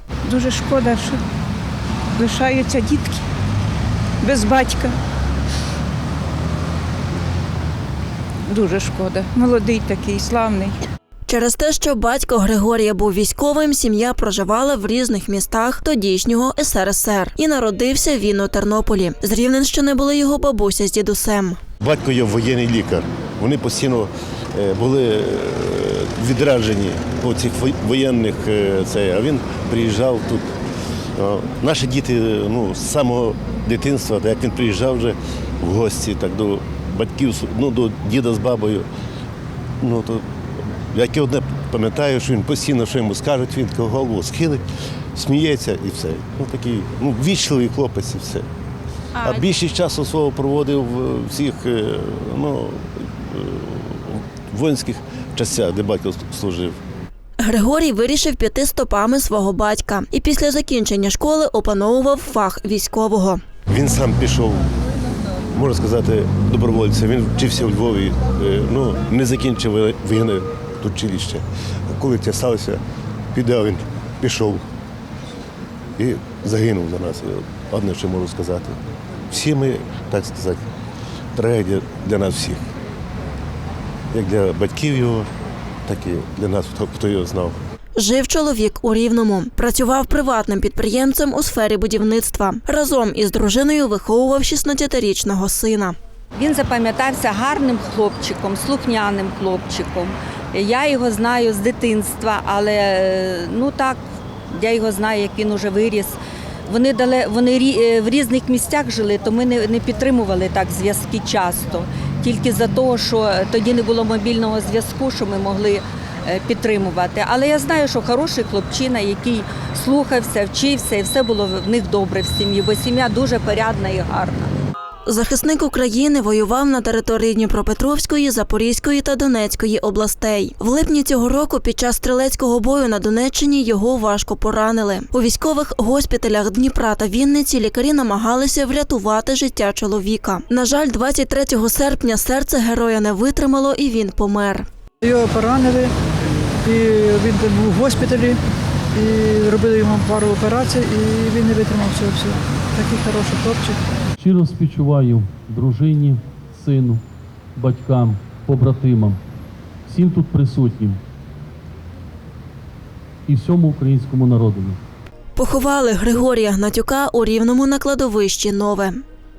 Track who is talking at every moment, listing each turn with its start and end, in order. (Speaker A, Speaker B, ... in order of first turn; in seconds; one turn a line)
Speaker A: 0.3-1.1
Speaker A: 2.2-3.2
Speaker A: 4.2-4.9
Speaker A: 8.5-10.7
Speaker B: 11.3-21.6
Speaker C: 21.8-30.4
Speaker C: 31.2-38.9
Speaker C: 39.8-40.2
Speaker C: 40.9-44.6
Speaker C: 45.1-48.5
Speaker C: 49.2-56.8
Speaker B: 57.4-63.4
Speaker C: 63.7-64.7
Speaker C: 65.5-72.8
Speaker C: 73.3-74.6
Speaker C: 76.0-78.8
Speaker C: 79.3-80.6
Speaker C: 81.3-82.6
Speaker C: 84.1-85.3
Speaker C: 85.8-87.6
Speaker B: 88.0-96.0
Speaker D: 96.3-104.0
Speaker D: 104.5-124.5
Speaker B: 125.1-144.7
Speaker E: 145.0-145.9
Speaker E: 146.6-148.4
Speaker E: 148.9-153.8
Speaker F: 154.2-157.0
Speaker F: 157.6-159.2
Speaker F: 159.9-161.0
Speaker F: 163.3-164.8
Speaker B: 165.3-169.0